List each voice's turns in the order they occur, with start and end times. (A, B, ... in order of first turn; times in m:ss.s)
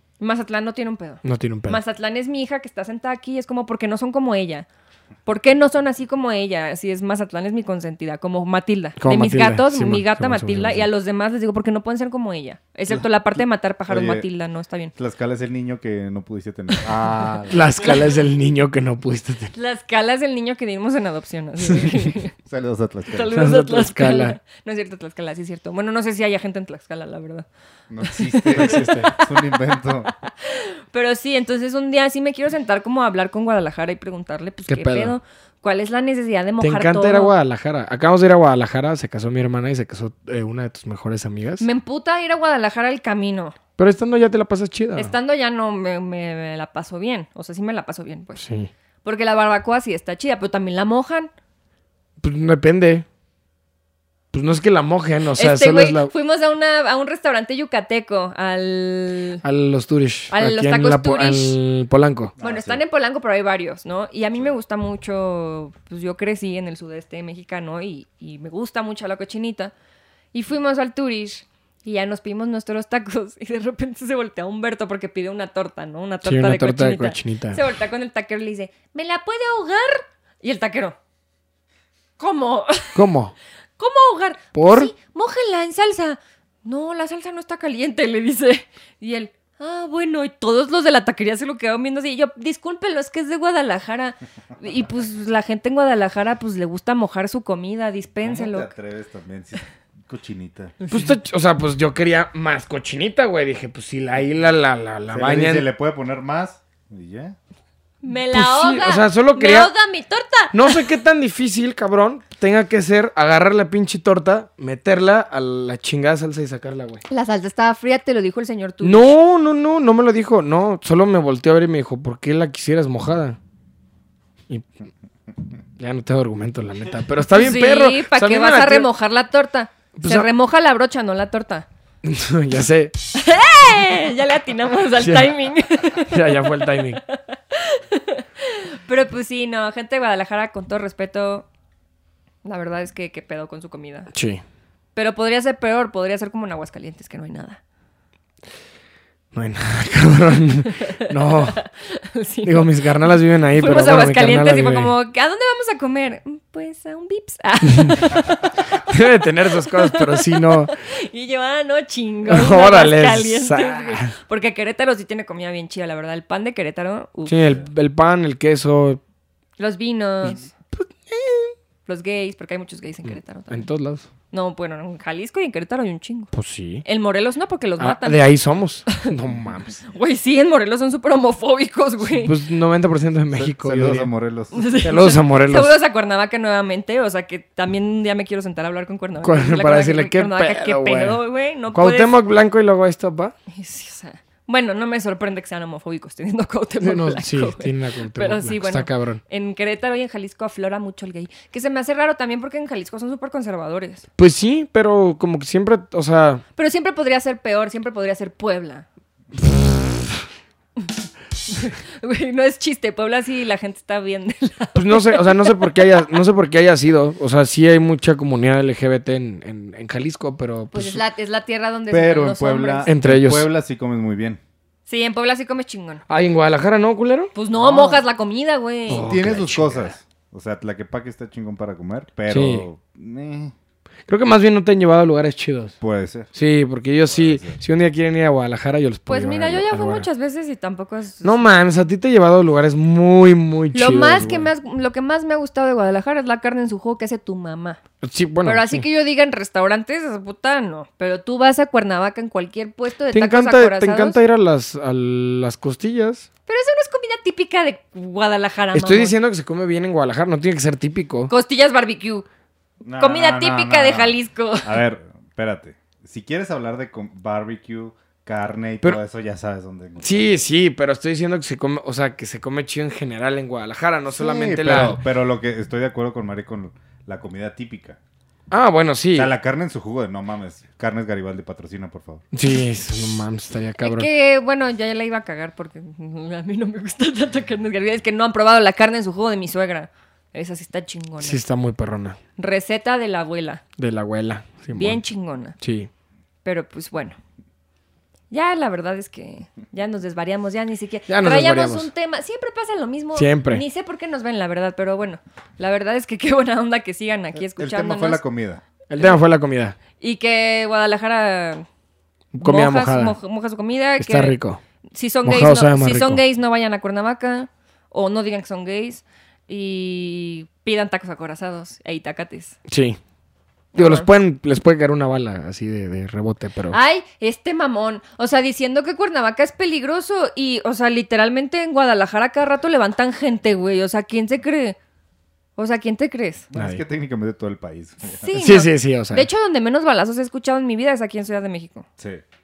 0:00.2-0:04.6 A
0:01.2-0:01.8 B
0:05.2-0:14.9 A
0:09.0-0:10.9 B
0:13.9-0:14.2 C
0:15.0-0:17.7 C
0:17.5-0:19.5 B
0:19.5-0:22.3 A
0:21.7-0:22.0 B
0:22.4-0:23.3 C
0:23.1-0:27.5 A
0:23.3-0:24.4 B
0:27.9-0:30.1 C
0:28.0-0:37.3 A
0:28.5-0:29.1 B
0:34.7-0:35.2 B
0:36.6-0:41.6 B
0:41.6-0:43.6 A
0:43.8-0:45.1 B
0:45.0-0:48.4 A
0:48.4-0:48.7 B
0:49.0-0:51.3 A
0:52.2-0:53.0 B
0:54.3-0:56.1 B
0:55.4-0:59.4 A
0:59.4-1:02.3 B
1:00.3-1:01.6 A
1:02.4-1:02.8 C
1:02.4-1:09.7 A
1:10.3-1:21.0 A
1:16.2-1:17.6 B
1:22.2-1:23.0 A
1:22.9-1:23.3 B
1:23.8-1:38.7 A
1:24.5-1:24.9 B
1:38.2-1:40.7 C
1:40.8-1:41.1 A
1:40.9-1:45.6 B
1:45.1-1:47.4 C
1:48.0-1:50.9 A
1:48.3-1:49.7 B
1:50.5-1:57.0 B
1:57.1-1:59.1 A
1:58.8-2:03.4 B
2:05.8-2:08.9 B
2:07.3-2:11.6 A
2:10.0-2:10.3 B
2:12.0-2:12.9 B
2:13.1-2:21.4 A
2:15.0-2:15.4 B
2:15.9-2:17.0 B
2:22.4-2:24.1 A
2:24.1-2:24.4 B
2:24.9-2:27.6 A
2:29.3-2:31.6 B
2:31.0-2:32.8 A
2:32.4-2:34.9 B
2:33.6-2:38.8 A
2:37.7-2:38.0 B
2:38.7-2:40.7 B
2:39.6-2:47.5 A
2:42.3-2:44.1 B
2:47.3-2:49.0 B
2:49.6-2:50.5 A
2:50.2-2:51.5 B
2:51.8-2:53.6 A
2:53.5-2:54.1 B
2:54.3-2:56.3 A
2:56.3-2:56.8 B
2:56.8-2:58.2 A
2:57.8-2:59.8 B
2:59.9-3:02.3 A
3:02.2-3:04.1 B
3:03.3-3:04.7 C
3:04.5-3:12.2 A
3:04.8-3:05.7 B
3:09.2-3:11.2 B
3:11.7-3:13.3 B
3:13.5-3:24.0 A
3:16.8-3:19.2 B
3:24.2-3:26.4 B
3:26.6-3:28.8 A
3:29.4-3:30.0 B
3:31.5-3:35.9 A
3:34.8-3:41.0 B
3:40.7-3:42.9 A
3:41.9-3:44.4 C
3:42.8-3:43.4 B
3:44.9-3:46.0 A
3:46.1-3:47.3 B
3:47.3-3:49.1 A
3:47.6-3:48.0 C
3:48.9-3:49.9 B
3:49.0-3:53.5 C
3:52.3-3:52.6 B
3:54.1-3:55.7 B
3:55.8-3:56.3 C
3:56.3-4:00.1 B
3:57.0-3:57.6 C
3:59.1-4:01.4 A
4:01.2-4:04.5 B
4:03.7-4:07.8 A
4:08.0-4:08.8 B
4:08.4-4:14.2 A
4:13.1-4:16.3 B
4:16.5-4:19.1 A
4:18.7-4:21.3 B
4:21.3-4:22.2 A
4:22.8-4:30.3 C
4:23.0-4:24.8 A
4:30.0-4:35.0 B
4:34.1-4:38.0 C
4:38.5-4:39.3 B
4:39.1-4:42.2 C
4:42.3-4:44.1 B
4:43.8-4:51.4 A
4:51.2-4:52.2 B
4:52.4-4:53.6 A
4:53.8-4:55.0 B
4:54.7-4:55.6 A
4:55.6-4:55.9 B
4:56.4-4:57.2 A
4:58.3-5:08.2 A
5:01.1-5:01.9 B
5:03.2-5:03.6 B
5:07.4-5:08.6 C
5:08.9-5:09.8 B
5:10.0-5:11.6 A
5:12.3-5:13.2 B
5:12.4-5:14.4 A
5:14.0-5:14.6 B
5:14.9-5:22.6 A
5:15.2-5:16.2 B
5:22.7-5:23.0 B
5:23.7-5:24.1 A
5:23.8-5:26.8 B
5:26.7-5:34.8 A
5:35.6-5:36.5 A
5:36.5-5:38.3 C
5:36.6-5:36.8 B
5:38.2-5:41.8 A
5:38.4-5:39.3 B